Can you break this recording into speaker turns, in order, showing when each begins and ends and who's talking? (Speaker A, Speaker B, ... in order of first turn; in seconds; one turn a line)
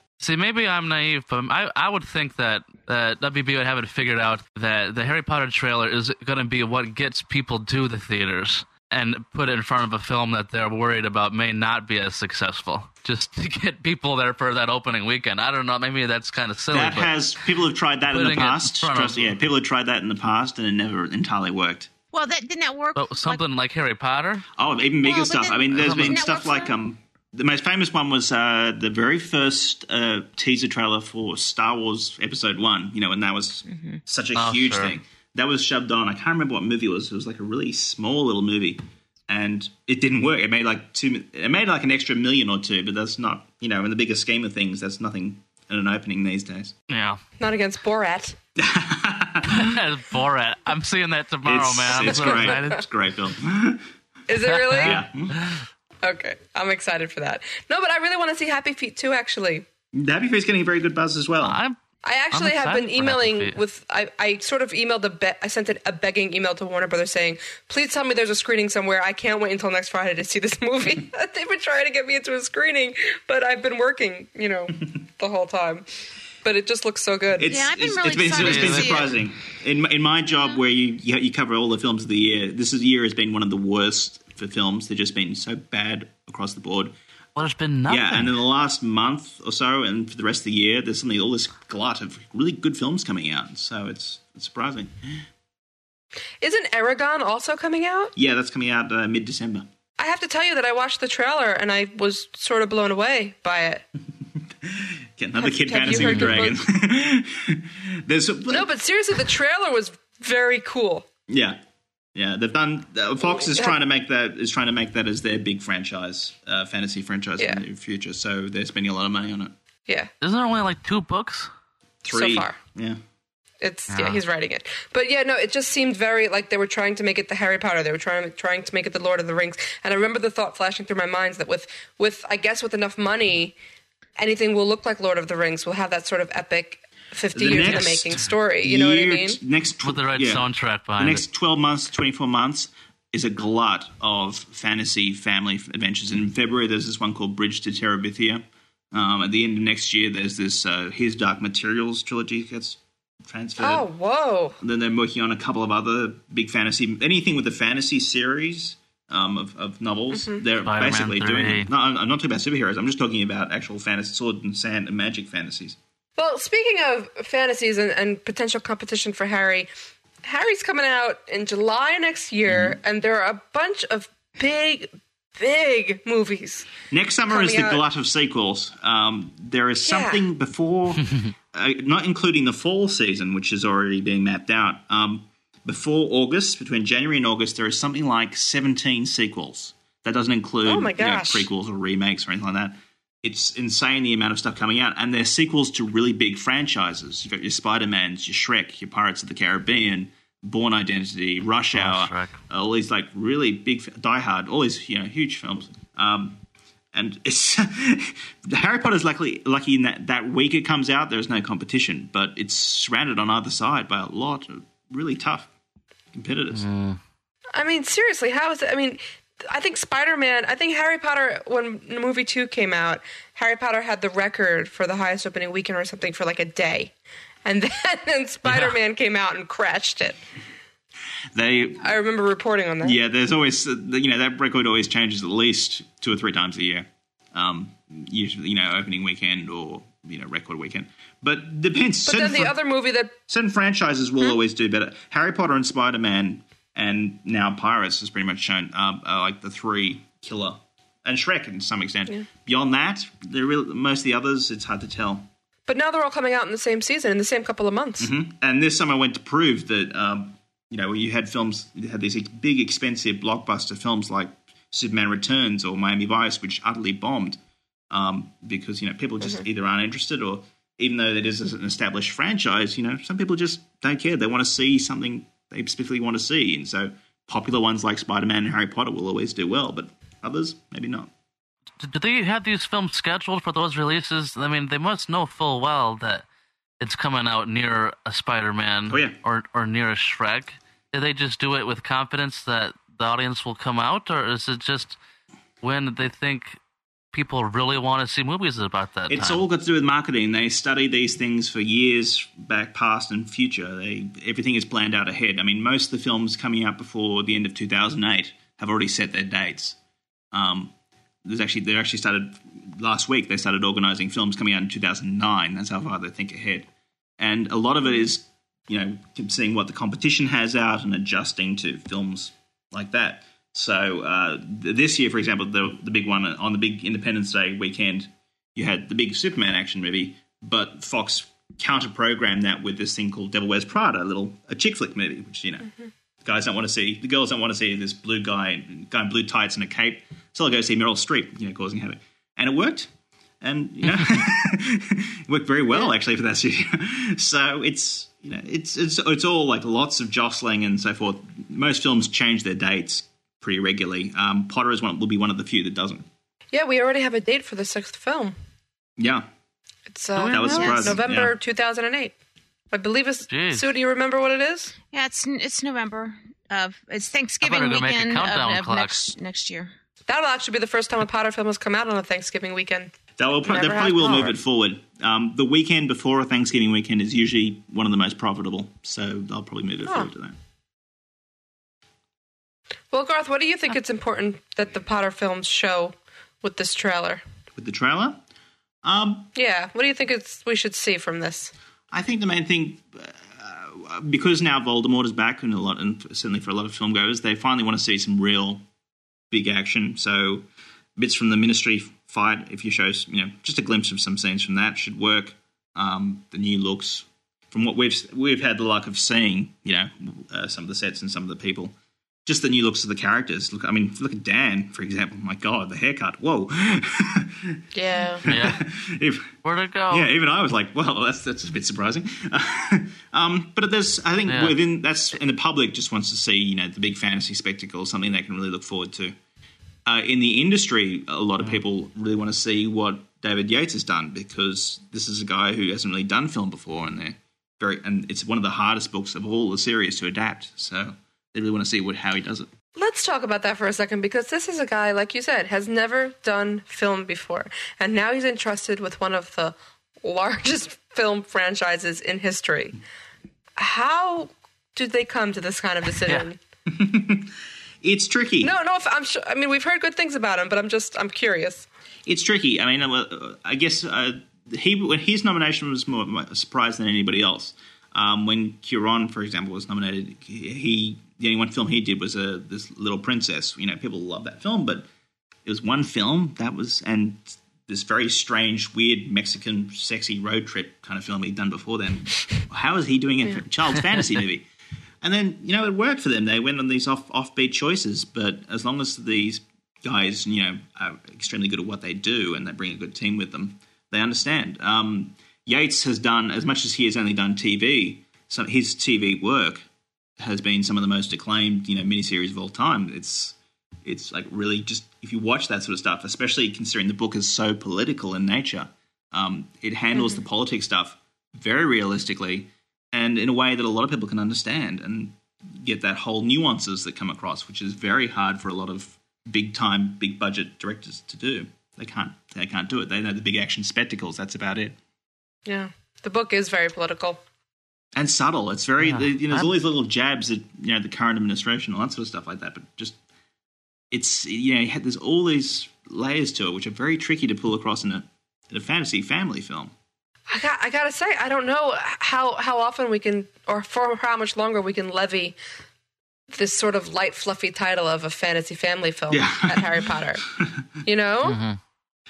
Speaker A: 0.2-17.1
Speaker B: 16.7-21.9
Speaker A: 18.1-19.3
Speaker C: 22.1-23.4
Speaker A: 23.0-24.5
Speaker B: 24.6-46.7
Speaker C: 25.0-26.8
Speaker A: 25.8-26.2
Speaker C: 33.7-34.0
Speaker A: 34.4-35.0
Speaker A: 46.9-47.2
Speaker D: 47.4-48.4
Speaker B: 48.6-49.8
Speaker A: 49.5-52.9
Speaker B: 51.4-53.9
Speaker D: 51.9-52.6
Speaker D: 54.3-55.0
Speaker A: 54.4-55.6
Speaker B: 54.8-55.4
Speaker D: 56.0-59.7
Speaker B: 59.9-61.6
Speaker A: 61.4-61.8
Speaker D: 62.0-75.9
Speaker A: 62.3-63.6
Speaker D: 76.4-77.6
Speaker B: 77.4-87.0
Speaker C: 77.5-79.1
Speaker A: 78.4-79.1
Speaker A: 87.4-88.3
Speaker B: 87.9-95.2
Speaker D: 96.4-98.1
Speaker B: 98.2-99.7
Speaker D: 100.0-103.8
Speaker B: 104.6-108.7
Speaker D: 105.4-106.6
Speaker A: 105.9-106.4
Speaker D: 108.5-111.1
Speaker B: 111.3-111.6
Speaker B: 112.2-119.5
Speaker D: 113.2-113.8
Speaker A: 120.2-121.5
Speaker B: 122.0-123.0
Speaker D: 122.1-122.6
Speaker D: 123.6-133.6
Speaker A: 123.9-124.2
Speaker D: 134.2-139.4
Speaker B: 137.3-140.5
Speaker A: 139.8-141.2
Speaker B: 141.0-153.9
Speaker D: 153.6-154.6
Speaker B: 154.6-165.8
Speaker D: 160.1-160.4
Speaker A: 160.6-161.7
Speaker D: 166.2-169.7
Speaker D: 170.2-176.7
Speaker B: 172.5-172.8
Speaker B: 176.9-206.4
Speaker D: 177.3-177.8
Speaker D: 179.8-180.2
Speaker D: 190.7-191.5
Speaker A: 201.8-202.4
Speaker B: 206.9-215.5
Speaker B: 216.1-216.7
Speaker A: 216.5-217.0
Speaker D: 217.6-226.9
Speaker D: 227.4-230.2
Speaker A: 228.5-228.8
Speaker B: 231.3-232.0
Speaker D: 231.8-233.0
Speaker B: 232.8-242.6
Speaker D: 242.1-243.1
Speaker B: 243.3-255.3
Speaker D: 255.7-258.1
Speaker B: 258.0-267.4
Speaker B: 267.9-281.1
Speaker A: 281.8-286.3
Speaker A: 286.8-295.0
Speaker B: 288.9-289.2
Speaker A: 295.6-296.6
Speaker A: 297.1-299.4
Speaker B: 299.1-309.8
Speaker B: 310.3-310.7
Speaker B: 311.2-335.7
Speaker B: 336.2-342.9
Speaker B: 343.4-356.1
Speaker D: 356.5-358.3
Speaker B: 359.0-359.3
Speaker D: 359.9-362.1
Speaker A: 360.1-360.9
Speaker B: 360.3-361.3
Speaker D: 362.7-364.7
Speaker A: 363.3-363.7
Speaker C: 364.9-369.7
Speaker A: 367.4-369.1
Speaker D: 370.1-372.9
Speaker B: 373.2-380.4
Speaker D: 373.5-374.4
Speaker D: 379.9-380.1
Speaker D: 382.9-387.2
Speaker B: 387.6-388.2
Speaker B: 388.8-389.3
Speaker D: 389.4-391.5
Speaker B: 391.9-398.6
Speaker B: 399.3-400.5
Speaker B: 401.0-411.7
Speaker B: 412.3-417.6
Speaker D: 417.7-418.3
Speaker B: 418.2-419.3
Speaker A: 418.3-418.6
Speaker A: 419.4-420.1
Speaker B: 419.9-429.1
Speaker A: 424.3-424.6
Speaker B: 429.9-442.5
Speaker D: 442.8-452.8
Speaker D: 453.6-456.4
Speaker B: 456.7-458.6
Speaker D: 458.4-461.7
Speaker B: 462.1-474.9
Speaker B: 475.4-484.4
Speaker B: 485.0-499.6
Speaker B: 500.2-524.8
Speaker D: 509.9-510.2
Speaker D: 525.5-527.2
Speaker B: 528.0-533.0
Speaker A: 528.8-529.5
Speaker B: 533.9-539.7
Speaker D: 540.3-545.4
Speaker D: 546.3-550.2
Speaker B: 549.1-550.6
Speaker D: 550.9-551.4
Speaker A: 551.2-551.6